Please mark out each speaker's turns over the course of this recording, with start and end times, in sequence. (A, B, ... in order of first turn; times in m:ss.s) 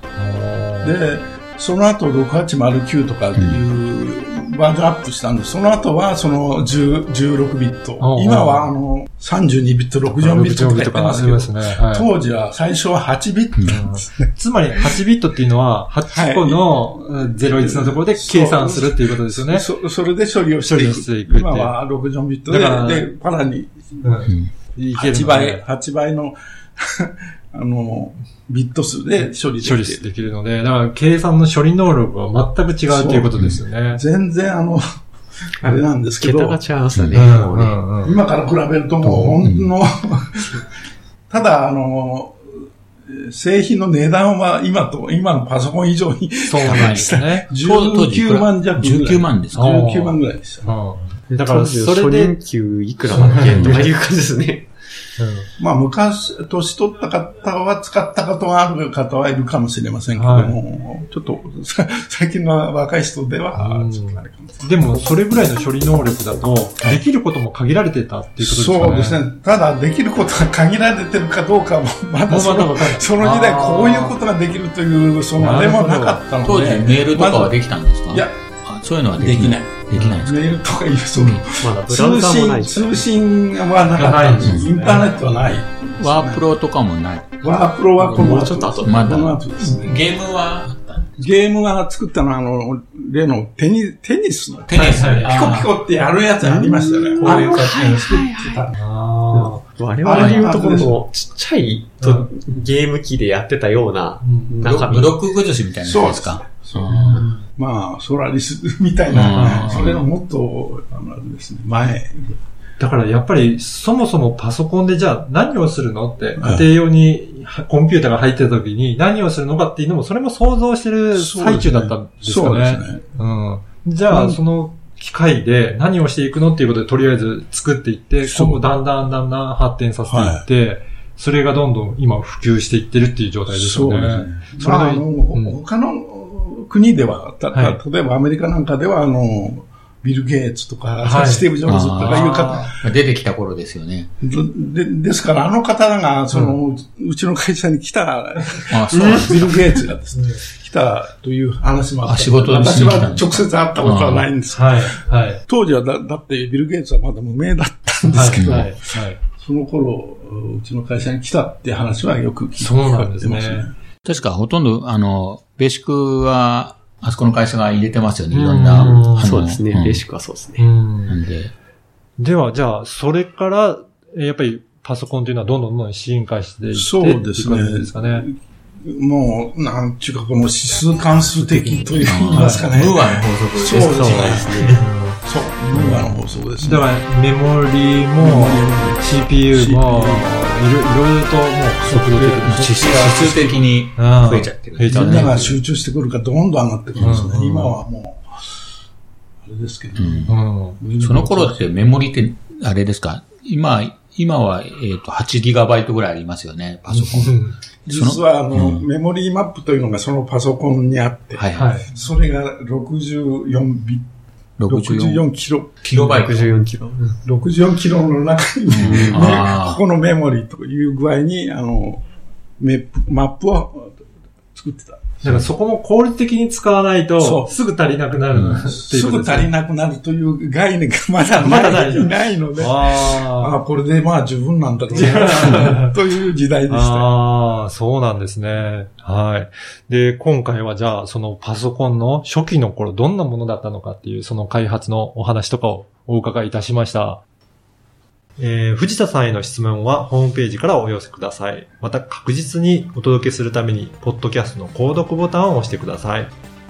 0:00.2-0:01.0 A
0:00.8-0:14.3 B
0:03.4-0:03.6 C
0:08.0-0:08.7 A
0:10.1-0:12.1 A
0:13.7-0:19.6 A
0:16.1-0:24.2 B
0:20.7-0:21.8 A
0:22.5-0:23.1 A
0:24.0-0:25.6 A
0:24.9-0:30.1 B
0:29.6-0:34.0 A
0:32.9-0:34.8 B
0:35.6-0:36.6 B
0:36.2-0:37.8 D
0:36.9-0:37.2 C
0:37.1-0:38.2 A
0:38.0-0:40.5 B
0:39.0-0:39.7 C
0:41.3-0:42.4 B
0:43.1-0:50.7 B
0:46.5-0:47.5 A
0:46.6-0:49.6 C
0:49.5-0:52.4 A
0:51.3-0:54.7 D
0:53.1-0:53.9 A
0:53.5-0:53.8 C
0:55.2-0:55.5 A
0:55.6-1:04.7 B
1:00.1-1:00.6 A
1:03.6-1:09.2 A
1:08.4-1:17.6 B
1:12.3-1:14.2 A
1:15.4-1:16.2 A
1:16.4-1:20.5 C
1:18.1-1:18.4 B
1:19.2-1:26.5 B
1:21.5-1:23.1 D
1:23.9-1:25.2 A
1:24.4-1:24.7 C
1:26.0-1:31.3 C
1:27.4-1:30.0 B
1:28.0-1:29.1 D
1:31.2-1:38.8 B
1:34.7-1:35.7 C
1:34.8-1:35.4 A
1:36.4-1:38.7 D
1:37.2-1:37.5 A
1:37.2-1:38.0 C
1:38.8-1:40.5 A
1:39.3-1:45.2 D
1:40.0-1:41.0 B
1:42.0-1:42.3 A
1:44.2-1:45.1 A
1:44.6-1:47.2 C
1:45.8-1:46.9 B
1:46.9-1:47.2 A
1:47.1-1:47.4 D
1:47.5-1:52.4 B
1:49.1-1:50.0 C
1:49.3-1:50.0 A
1:52.8-2:15.6 A
1:56.4-1:56.7 B
2:01.1-2:03.0 B
2:04.1-2:04.4 B
2:08.2-2:08.6 B
2:10.1-2:10.4 B
2:13.5-2:22.8 B
2:17.5-2:17.8 A
2:21.0-2:21.5 A
2:21.6-2:24.1 C
2:22.0-2:22.7 A
2:24.2-2:43.7 B
2:26.3-2:26.6 A
2:28.7-2:29.6 C
2:28.9-2:29.7 D
2:32.0-2:34.3 C
2:34.5-2:35.4 A
2:38.1-2:39.2 A
2:38.4-2:38.7 C
2:42.6-2:43.7 A
2:44.0-2:50.0 C
2:48.3-2:49.4 A
2:49.2-2:50.6 D
2:50.6-2:51.2 A
2:51.1-2:51.5 C
2:52.2-2:58.2 A
2:56.7-3:04.6 B
3:01.4-3:02.7 A
3:02.0-3:04.7 C
3:03.7-3:04.8 D
3:04.7-3:05.2 A
3:05.2-3:07.0 B
3:05.7-3:15.6 A
3:08.2-3:10.4 B
3:11.8-3:12.6 B
3:12.4-3:15.4 C
3:14.8-3:18.2 B
3:17.0-3:17.8 A
3:17.0-3:17.2 C
3:19.4-3:21.7 B
3:20.0-3:20.4 C
3:20.3-3:20.8 A
3:21.0-3:27.3 C
3:26.9-3:34.0 B
3:27.3-3:27.5 A
3:27.8-3:28.8 C
3:31.4-3:31.7 C
3:31.5-3:31.9 A
3:34.6-3:35.2 C
3:34.7-3:36.3 B
3:35.8-3:36.4 C
3:36.1-3:37.2 D
3:37.2-3:42.0 B
3:38.7-3:39.8 C
3:38.8-3:39.3 D
3:42.6-3:44.0 B
3:44.5-3:45.2 B
3:45.2-3:49.5 A
3:47.2-3:47.5 B
3:48.3-3:48.6 C
3:48.6-3:57.1 B
3:51.3-3:53.6 A
3:54.9-3:55.9 A
3:56.7-4:07.2 A
4:08.4-4:16.3 A